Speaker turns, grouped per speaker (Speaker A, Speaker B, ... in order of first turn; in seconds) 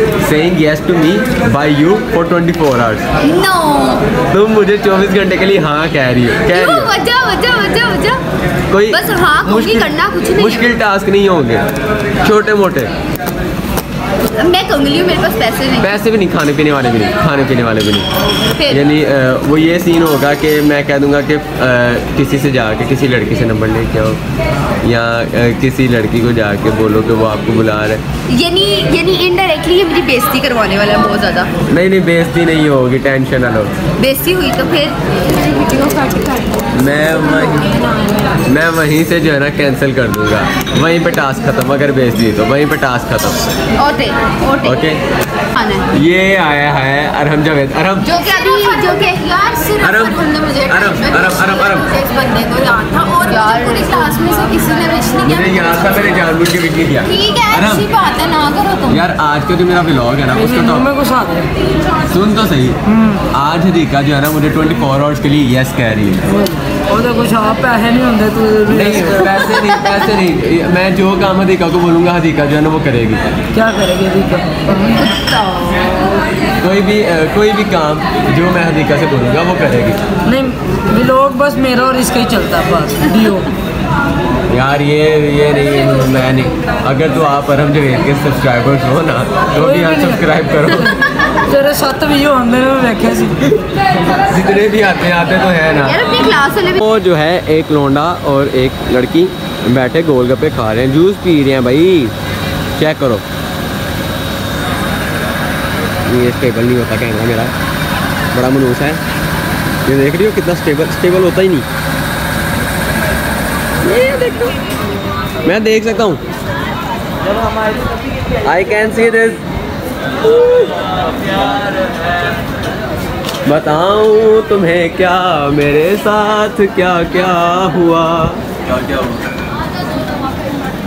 Speaker A: 0.2-3.1, 4.3-6.9, 8.7-11.6, 12.2-12.9, 15.8-18.1, 18.7-24.2, 24.8-28.0, 31.7-33.7, 36.7-37.8, 38.5-43.4, 44.6-45.0, 45.9-48.1, 49.8-51.9, 55.2-57.9, 58.9-61.0, 62.1-62.8, 63.3-66.3, 68.7-73.3, 76.6-80.0, 84.5-91.0, 94.0-96.2, 96.8-102.1, 102.8-103.2, 106.1-107.5, 108.3-109.0, 109.8-111.7, 113.9-114.5, 115.4-116.2, 118.4-119.4, 123.5-129.0
Speaker B: 3.2-4.0, 6.5-8.2, 8.9-10.7, 14.4-16.0, 18.6-18.9, 28.3-31.5, 34.0-36.6, 43.8-44.9, 45.5-45.9, 48.0-56.3, 57.0-59.0, 75.1-75.8, 95.8-96.8
Speaker C: 60.5-61.5, 66.9-69.4, 73.5-75.0, 80.3-83.5, 89.6-90.2, 91.5-93.4